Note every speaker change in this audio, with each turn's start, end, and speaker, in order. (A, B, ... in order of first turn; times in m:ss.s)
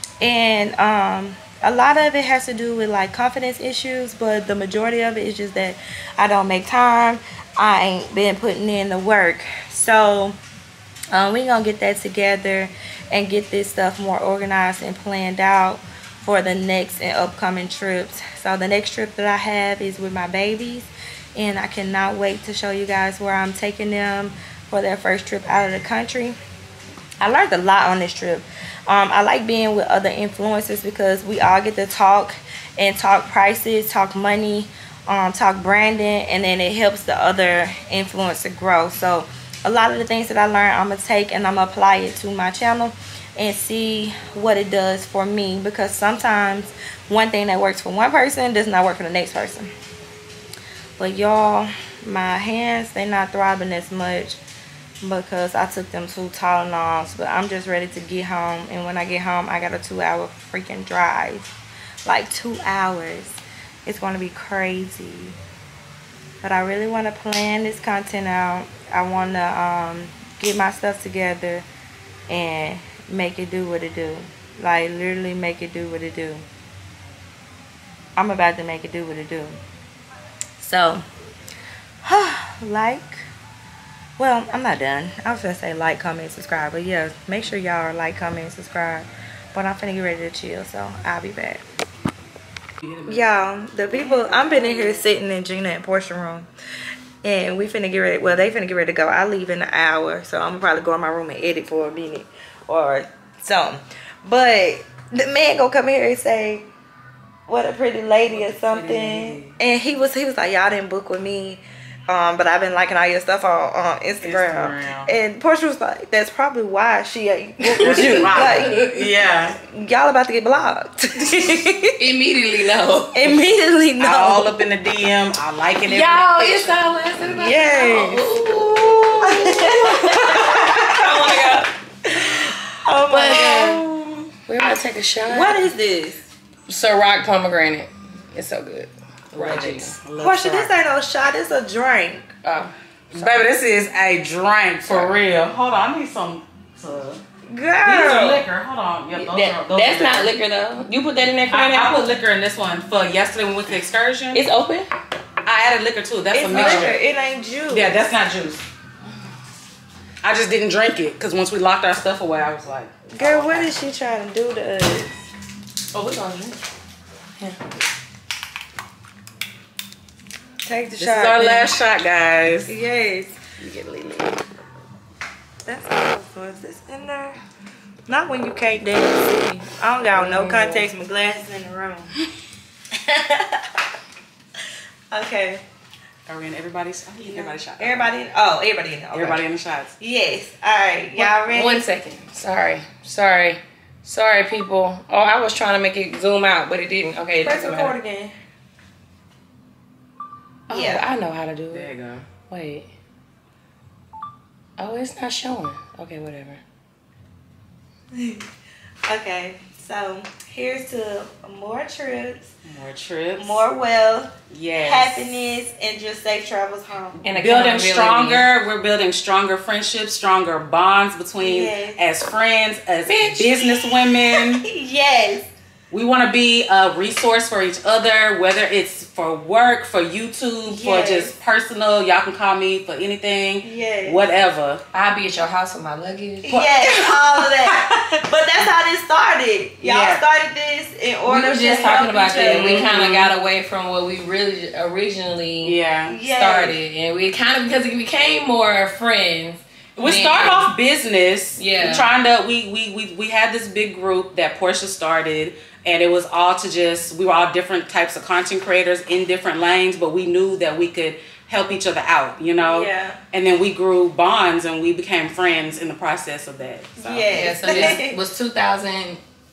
0:00.2-0:10.4 A
0:11.1-0:26.4 A
0:27.2-0:49.7 A
0:51.0-0:54.4 A
0:55.0-1:05.4 A
1:06.4-1:11.7 A
1:12.3-1:16.4 A
1:18.2-1:19.6 A
1:20.6-1:21.0 A
1:22.0-1:23.3 A
1:24.2-1:31.6 A
1:33.0-1:36.5 A
1:37.2-1:46.7 A
1:47.5-1:58.9 A
1:48.3-1:49.6 B
1:54.2-1:55.1 B
1:57.8-1:59.6 B
1:57.8-1:58.9 C
1:59.6-2:02.0 A
2:02.0-2:03.3 C
2:03.1-2:04.6 A
2:04.0-2:06.8 B
2:05.9-2:11.7 C
2:07.3-2:08.4 A
2:09.2-2:14.3 A
2:13.1-2:13.8 C
2:14.5-2:15.6 C
2:15.3-2:16.3 A
2:16.7-2:19.9 C
2:19.3-2:20.7 B
2:20.2-2:22.3 A
2:22.4-2:22.7 C
2:23.1-2:27.2 B
2:27.5-2:28.4 A
2:27.8-2:30.3 B
2:29.1-2:32.0 C
2:31.5-2:34.4 B
2:34.3-2:34.9 C
2:35.4-2:37.0 B
2:36.3-2:38.0 A
2:36.5-2:36.9 C
2:37.7-2:38.6 B
2:40.2-2:43.7 B
2:43.1-2:45.1 A
2:45.9-2:46.6 C
2:50.6-2:51.7 A
2:51.0-2:52.7 B
2:52.7-2:53.4 A
2:53.6-2:54.4 C
2:55.6-2:57.4 A
2:58.1-3:02.1 A
3:00.1-3:00.6 C
3:02.9-3:03.7 A
3:05.1-3:05.6 A
3:06.3-3:08.1 B
3:07.2-3:09.4 A
3:09.1-3:09.9 B
3:10.0-3:11.8 A
3:11.2-3:17.9 C
3:17.4-3:18.4 A
3:20.7-3:21.1 A
3:20.7-3:21.9 C
3:21.7-3:22.3 B
3:22.5-3:22.9 C
3:24.8-3:26.6 C
3:28.1-3:28.4 A
3:29.0-3:32.5 A
3:32.6-3:33.6 B
3:33.4-3:37.2 A
3:34.5-3:35.3 B
3:37.2-3:44.6 B
3:37.2-3:38.5 C
3:41.4-3:42.0 A
3:43.1-3:45.5 A
3:45.9-3:54.8 B
3:50.6-3:51.3 A
3:53.6-3:54.2 A
3:54.9-3:57.0 C
3:56.4-4:02.9 A
3:59.8-4:00.2 B
4:01.3-4:10.7 C
4:02.3-4:03.3 B
4:05.6-4:06.2 B
4:06.1-4:06.8 A
4:10.0-4:27.8 B
4:11.6-4:12.1 C
4:22.6-4:23.2 A
4:27.0-4:28.2 A
4:27.3-4:29.2 C